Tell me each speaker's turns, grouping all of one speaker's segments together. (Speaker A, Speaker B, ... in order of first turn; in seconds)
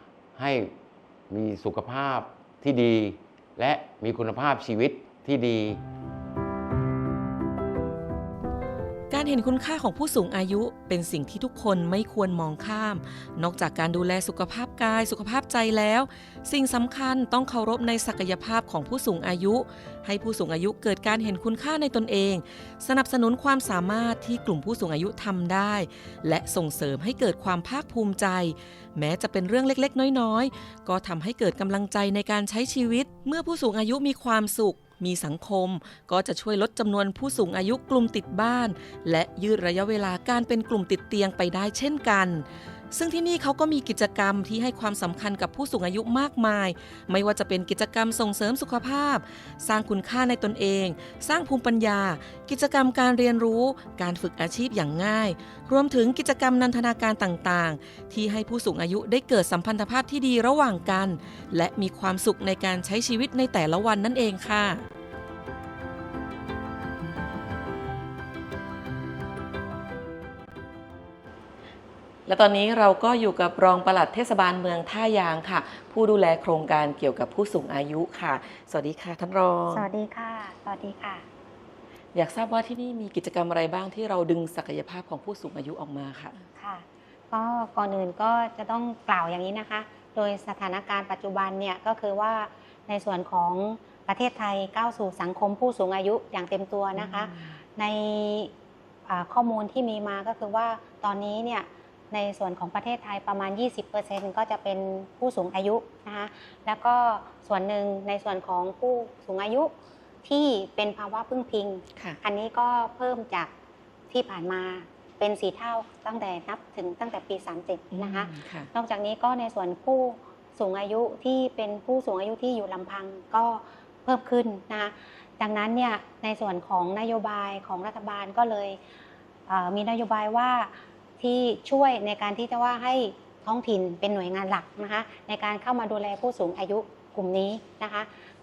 Speaker A: 0.4-0.7, 1.3-5.8
Speaker B: 9.1-64.9, 72.3-79.9, 82.1-86.5, 97.0-97.6, 117.9-118.7
Speaker C: 79.7-81.2, 86.6-98.5, 99.1-109.7, 110.2-113.5, 114.1-128.8, 129.5-138.1